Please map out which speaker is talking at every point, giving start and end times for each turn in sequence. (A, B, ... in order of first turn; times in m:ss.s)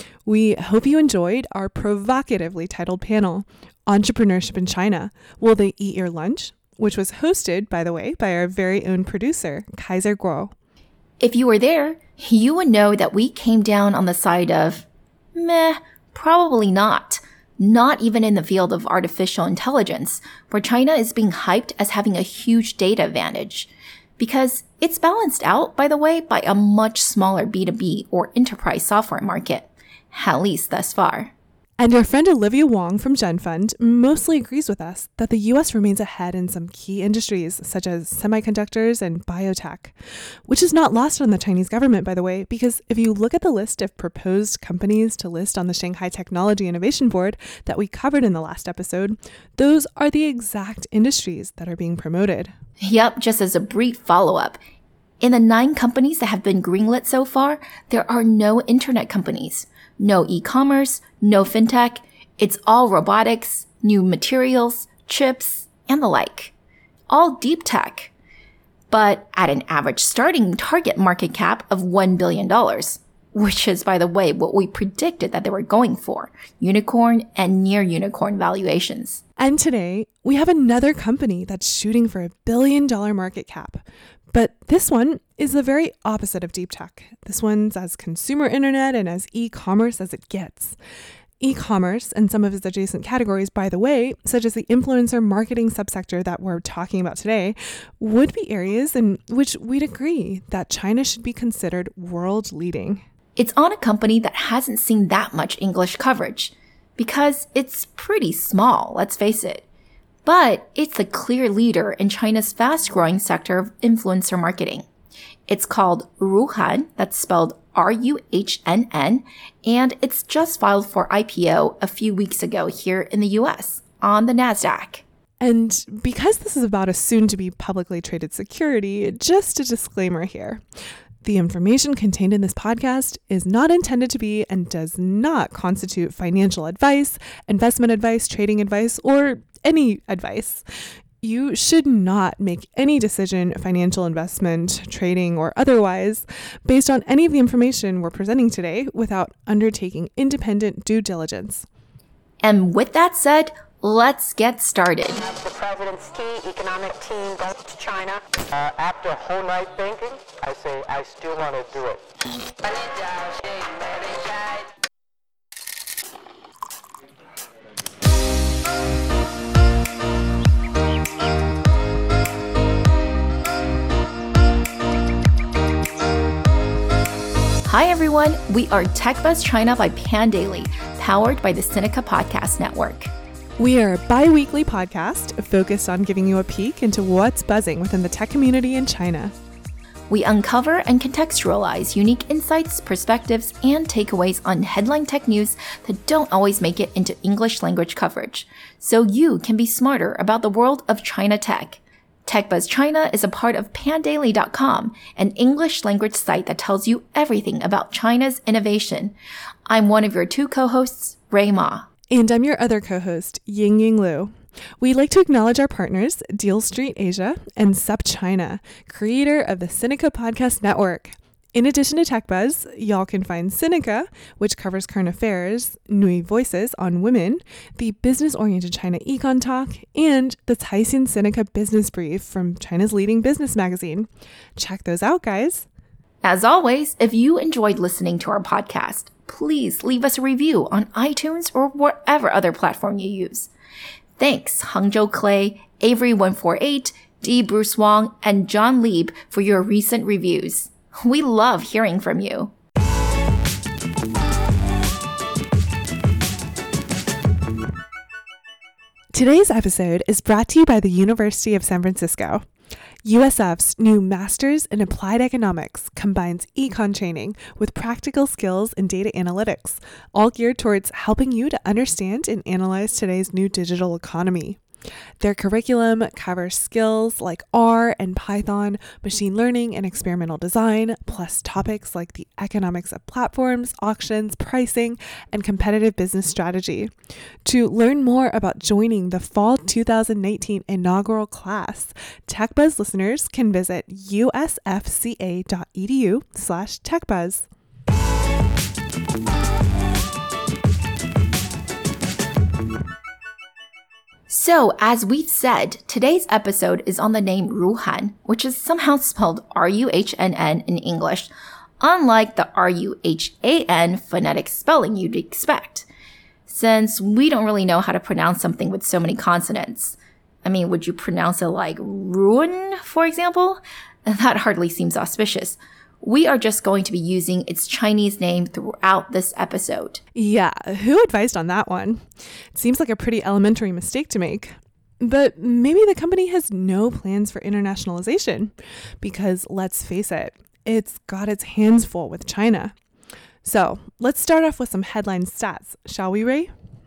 0:00.2-0:10.5 A
0:11.2-0:31.3 B
0:31.8-0:39.9 A
0:40.5-0:52.5 A
0:52.8-0:54.6 B
0:55.2-1:06.5 B
1:07.1-1:08.1 B
1:08.9-1:19.2 B
1:19.4-1:30.8 A
1:31.4-1:43.0 A
1:43.4-1:49.6 B
1:50.2-1:54.8 B
1:55.5-2:05.0 B
2:05.4-2:10.6 A
2:11.2-2:20.6 A
2:21.2-2:31.6 A
2:32.4-2:35.2 B
2:35.2-2:42.0 C
2:42.6-2:44.7 C
2:57.6-3:03.1 B
3:03.6-3:09.3 A
3:10.1-3:29.1 B
3:29.7-3:31.9 B
3:32.1-3:55.7 A
3:56.2-4:03.5 B
4:04.2-4:12.5 B
4:19.1-4:22.4 A
4:23.0-4:34.6 A
4:35.2-4:46.9 A
4:47.4-4:57.5 A
5:04.3-5:11.3 B
5:11.8-5:15.9 B
5:16.5-5:30.0 B
5:30.1-5:32.0 A
5:32.5-5:42.7 A
5:43.4-5:46.5 A